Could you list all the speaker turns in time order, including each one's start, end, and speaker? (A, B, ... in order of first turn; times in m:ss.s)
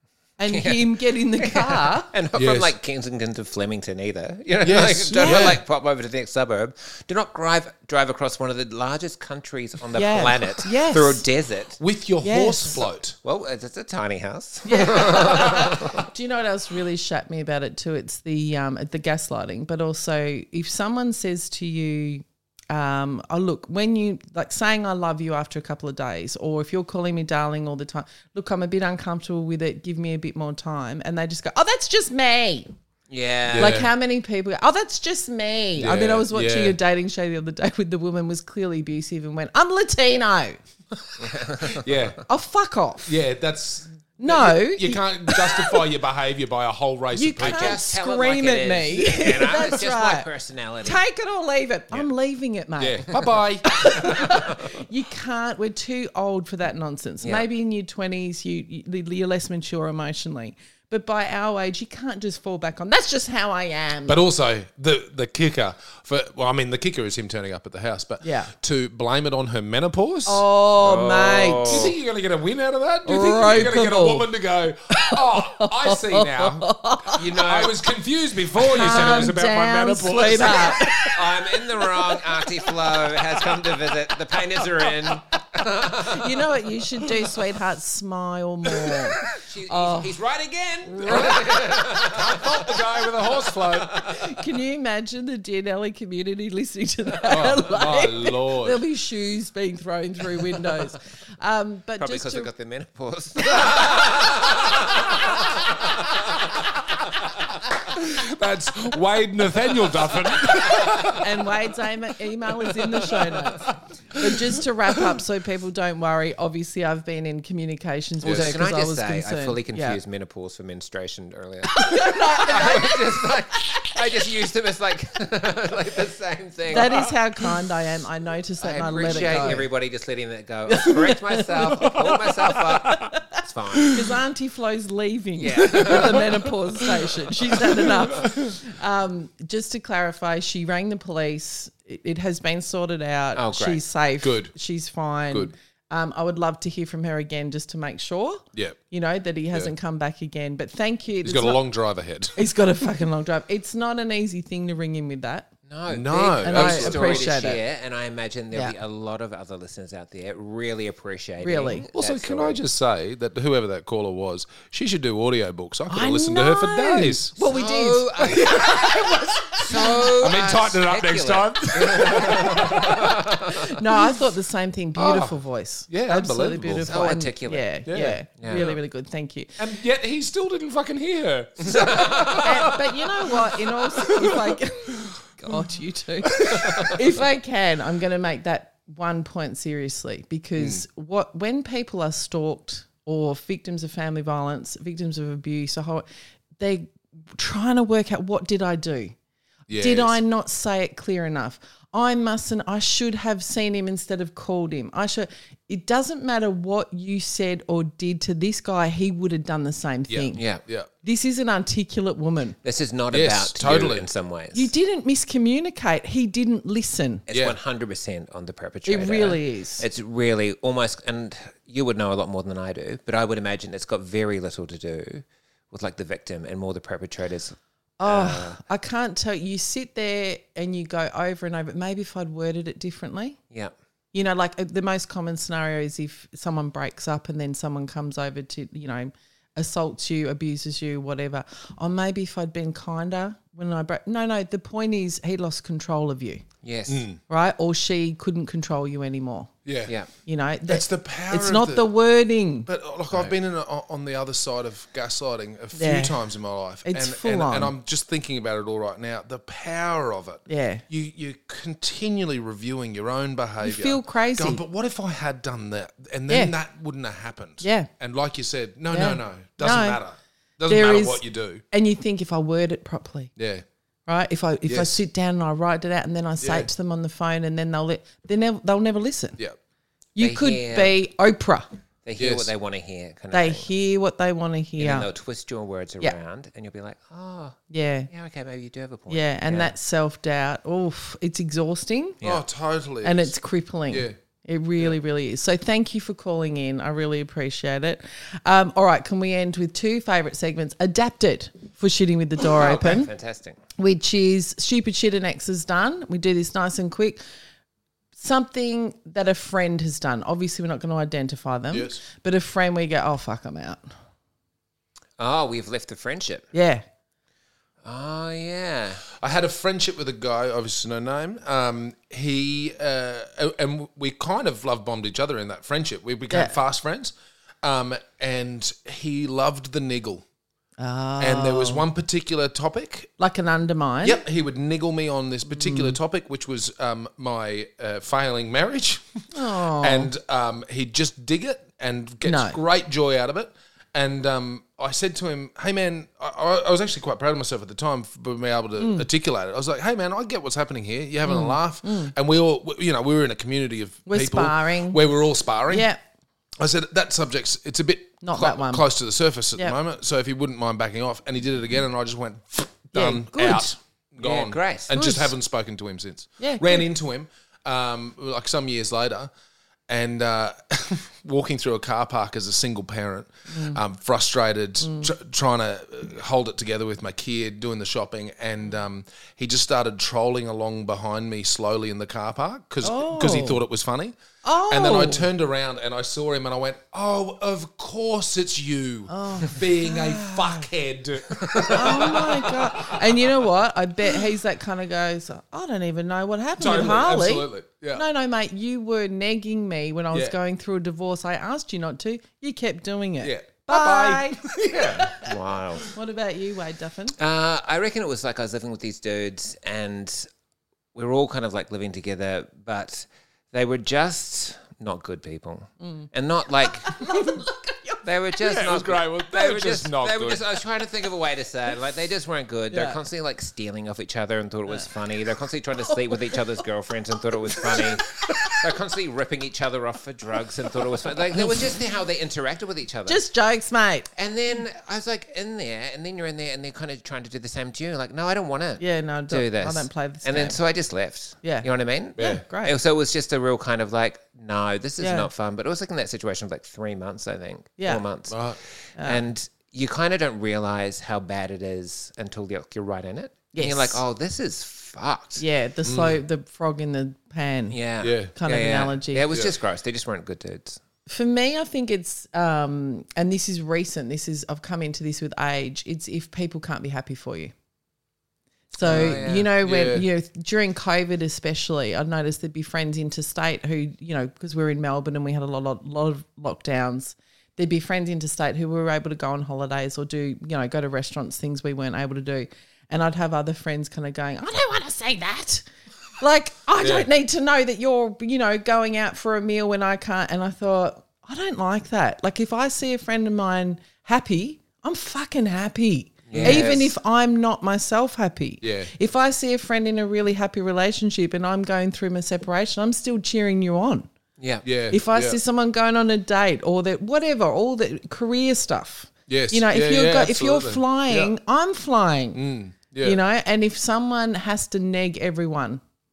0:00.4-0:02.1 A
0:00.5-0:11.8 B
0:02.4-0:02.7 C
0:04.6-0:05.6 C
0:05.2-0:05.5 A
0:10.0-0:11.2 A
0:11.8-0:13.2 C
0:12.2-0:12.8 A
0:13.2-0:16.1 B
0:14.7-0:32.7 A
0:33.1-0:33.8 B
0:33.5-0:33.9 C
0:33.6-0:40.6 A
0:35.8-0:36.8 C
0:41.1-0:42.2 C
0:41.2-0:42.0 B
0:42.3-0:43.1 A
0:43.1-0:47.8 C
0:44.2-0:45.8 A
0:47.1-0:50.3 A
0:47.4-0:51.0 B
0:50.8-0:53.2 A
0:52.8-0:54.1 C
0:53.7-1:04.2 A
0:53.8-0:54.4 B
0:57.2-0:57.5 B
1:04.1-1:10.4 C
1:08.2-1:08.5 A
1:10.3-1:11.8 A
1:10.8-1:11.9 B
1:11.7-1:16.7 C
1:13.1-1:14.3 A
1:14.9-1:17.2 A
1:17.2-1:17.8 B
1:17.4-1:21.2 C
1:18.7-1:21.2 A
1:18.9-1:19.3 B
1:21.1-1:26.4 B
1:24.9-1:25.2 C
1:26.0-1:30.1 A
1:29.3-1:34.1 B
1:30.9-1:31.4 A
1:31.0-1:34.1 C
1:34.2-1:42.5 A
1:37.3-1:38.8 C
1:42.0-1:46.4 B
1:43.6-1:44.8 C
1:47.8-1:51.3 C
1:51.2-2:00.0 A
1:52.5-1:55.2 C
1:58.2-1:58.6 C
1:58.2-2:07.1 B
2:01.7-2:03.3 A
2:06.7-2:09.7 A
2:08.6-2:14.0 B
2:10.7-2:13.2 A
2:11.7-2:12.2 C
2:13.9-2:31.6 A
2:15.4-2:16.4 B
2:15.7-2:16.2 C
2:17.6-2:18.6 C
2:23.4-2:23.8 B
2:24.2-2:24.5 C
2:28.5-2:28.8 C
2:31.2-2:32.4 C
2:32.4-2:35.5 A
2:35.7-2:42.6 B
2:35.9-2:37.4 C
2:36.4-2:37.6 A
2:41.4-2:41.8 A
2:42.0-2:47.4 C
2:45.9-2:48.3 A
2:47.5-2:53.4 B
2:48.2-2:53.3 C
2:49.1-2:49.9 A
2:53.5-2:59.5 A
2:55.0-2:57.0 C
2:56.9-2:57.7 B
2:57.9-2:58.8 C
2:58.4-2:58.7 B
2:59.6-3:03.3 C
3:01.6-3:02.5 B
3:02.4-3:16.0 A
3:04.1-3:04.4 C
3:06.3-3:07.0 C
3:10.6-3:10.8 C
3:16.6-3:19.2 A
3:19.7-3:20.2 C
3:19.8-3:30.4 A
3:30.1-3:30.9 C
3:30.4-3:30.6 B
3:31.0-3:32.6 A
3:32.6-3:34.7 B
3:33.1-3:34.1 C
3:34.5-3:37.2 A
3:37.3-3:48.6 B
3:37.3-3:37.6 C
3:38.9-3:39.8 A
3:48.0-3:53.4 A
3:54.1-4:06.4 A
4:06.6-4:07.1 B
4:06.9-4:07.2 C
4:07.3-4:09.5 A
4:09.6-4:10.0 C
4:10.3-4:12.7 A
4:10.7-4:11.9 C
4:12.7-4:31.6 C
4:15.8-4:16.2 A
4:16.8-4:17.7 A
4:20.5-4:20.8 A
4:23.6-4:24.6 A
4:26.3-4:26.5 A
4:27.6-4:27.9 A
4:28.9-4:30.0 A
4:30.7-4:33.3 A
4:33.4-4:33.6 C
4:34.1-4:39.4 A
4:34.7-4:35.0 C
4:36.4-4:36.7 C
4:40.2-4:41.7 A
4:40.2-4:41.0 B
4:42.0-4:43.7 B
4:42.2-4:42.5 C
4:43.3-4:45.1 A
4:44.8-4:49.7 B
4:47.7-4:48.1 A
4:49.1-4:52.2 A
4:52.2-4:53.3 C
4:53.0-5:03.1 A
4:53.9-4:54.2 C
5:02.5-5:03.6 B
5:03.8-5:07.2 A
5:08.2-5:13.9 A
5:11.7-5:12.0 C
5:15.2-5:16.5 B
5:16.5-5:16.8 A
5:17.8-5:19.1 B
5:19.1-5:30.2 C
5:26.3-5:26.6 A
5:30.8-5:31.8 A
5:31.2-5:33.1 C
5:33.2-5:34.2 A
5:34.0-5:55.9 C
5:35.5-5:36.0 A
5:39.3-5:40.1 A
5:42.2-5:42.6 A
5:48.8-5:49.1 A
5:51.3-5:52.1 A
5:54.1-5:55.0 A
5:55.7-5:56.0 A
5:56.6-6:09.3 C
5:58.2-5:58.9 A
6:02.9-6:03.7 A
6:04.2-6:05.0 B
6:05.0-6:05.3 A
6:06.4-6:06.9 A
6:09.9-6:24.2 C
6:13.5-6:13.8 A
6:14.8-6:15.1 A
6:22.8-6:23.6 A
6:24.4-6:25.3 A
6:24.7-6:33.4 C
6:29.1-6:30.7 A
6:31.7-6:45.3 A
6:36.6-6:38.1 C
6:43.2-6:45.2 C
6:44.8-6:45.9 B
6:45.9-6:47.2 A
6:47.2-6:50.3 B
6:51.0-6:57.0 B
6:55.8-6:56.1 A
6:56.7-6:58.0 A
6:58.0-7:13.2 B
6:58.4-7:00.4 C
7:02.7-7:03.0 A
7:05.9-7:06.4 A
7:13.1-7:14.1 A
7:14.2-7:35.4 B
7:18.8-7:20.6 A
7:22.2-7:22.4 C
7:22.5-7:22.8 A
7:25.0-7:25.3 A
7:27.8-7:28.0 A
7:28.3-7:28.6 C
7:33.5-7:34.0 A
7:35.4-7:37.8 A
7:35.8-7:36.2 C
7:37.7-7:40.8 B
7:38.0-7:38.3 C
7:38.4-7:39.3 A
7:41.1-7:47.5 A
7:48.7-8:05.6 A
7:48.8-7:49.5 B
7:48.8-7:50.1 C
8:06.2-8:24.1 A
8:06.8-8:07.1 C
8:16.3-8:16.9 B
8:16.3-8:16.8 C
8:18.6-8:18.9 C
8:24.4-8:24.7 B
8:24.6-8:25.4 C
8:24.9-8:32.4 A
8:29.3-8:31.3 C
8:32.3-8:33.2 C
8:33.0-8:35.8 A